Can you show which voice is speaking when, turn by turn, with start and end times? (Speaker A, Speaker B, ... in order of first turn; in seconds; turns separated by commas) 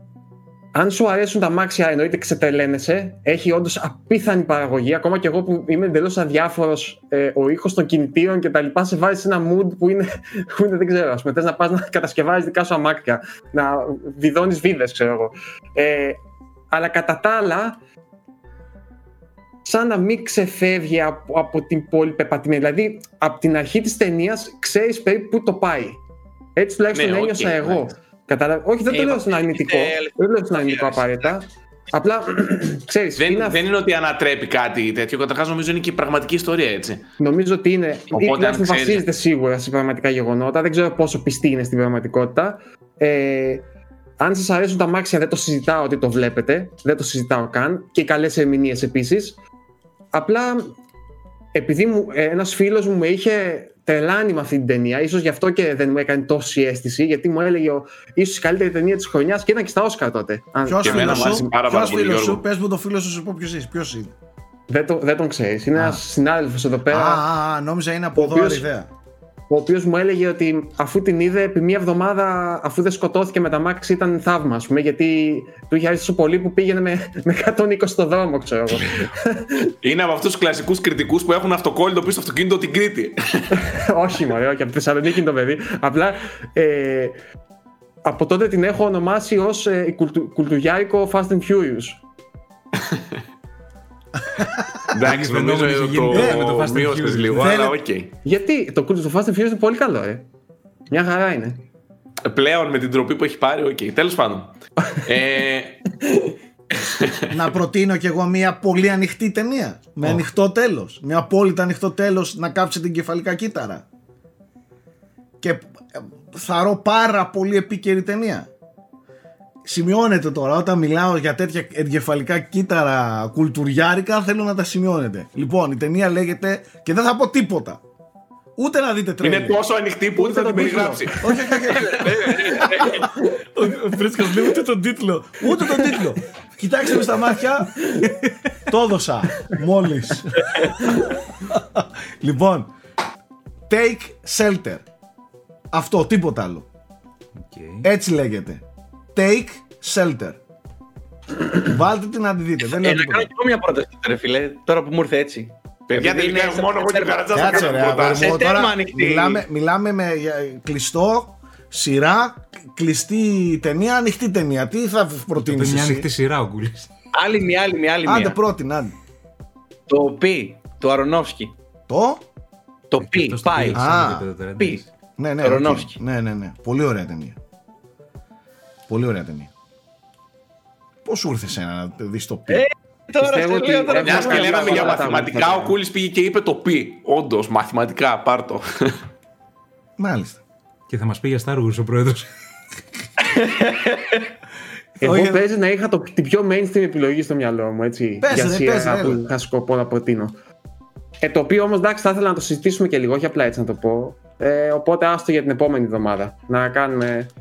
Speaker A: 0.7-16.2, Speaker A: 16.7-17.8, Speaker A: 19.6-26.0, Speaker A: 26.6-33.6, Speaker B: 26.9-27.9, Speaker C: 28.9-31.4, Speaker B: 33.2-37.0, Speaker A: 37.2-43.6, Speaker B: 38.1-39.1, Speaker A: 44.2-49.4, Speaker A: 50.1-50.8, Speaker A: 51.5-61.5, Speaker D: 60.6-64.1, Speaker B: 60.8-62.4, Speaker A: 64.7-67.2, Speaker D: 65.7-66.0, Speaker D: 66.9-68.9, Speaker A: 68.2-68.7, Speaker A: 69.5-79.7, Speaker B: 79.8-83.6, Speaker A: 83.6-87.2, Speaker A: 88.0-92.0, Speaker D: 94.3-95.2, Speaker B: 94.9-98.1, Speaker E: 95.0-97.6, Speaker D: 96.1-96.4, Speaker D: 97.4-97.8, Speaker A: 98.2-100.3, Speaker A: 100.9-101.6, Speaker B: 102.2-105.8, Speaker B: 106.7-107.4, Speaker D: 107.3-113.8, Speaker D: 115.4-118.5, Speaker D: 119.7-127.8, Speaker D: 128.6-129.6, Speaker B: 129.2-132.7, Speaker A: 130.2-131.5, Speaker D: 131.2-138.0, Speaker C: 132.6-133.0, Speaker D: 138.7-142.7, Speaker D: 143.7-144.8, Speaker D: 145.7-146.7, Speaker E: 147.4-147.9, Speaker D: 147.8-148.6, Speaker D: 149.2-150.4, Speaker D: 151.5-153.3, Speaker C: 152.7-159.4, Speaker B: 155.9-158.4, Speaker D: 157.3-166.1, Speaker E: 165.4-166.9, Speaker C: 167.1-168.4, Speaker D: 168.1-168.9, Speaker C: 169.9-171.5, Speaker D: 171.9-172.2, Speaker C: 172.9-174.0, Speaker E: 173.0-174.9, Speaker D: 173.7-174.3, Speaker C: 174.6-174.8, Speaker D: 175.2-177.4, Speaker C: 175.4-176.0, Speaker D: 178.9-179.5, Speaker D: 181.1-182.7, Speaker C: 182.5-185.1, Speaker A: 183.2-185.8, Speaker B: 183.9-189.0, Speaker D: 190.0-190.4, Speaker E: 190.9-192.3, Speaker C: 193.3-194.3, Speaker D: 195.0-195.4, Speaker A: 195.0-200.3, Speaker D: 198.2-199.2, Speaker A: 201.2-207.3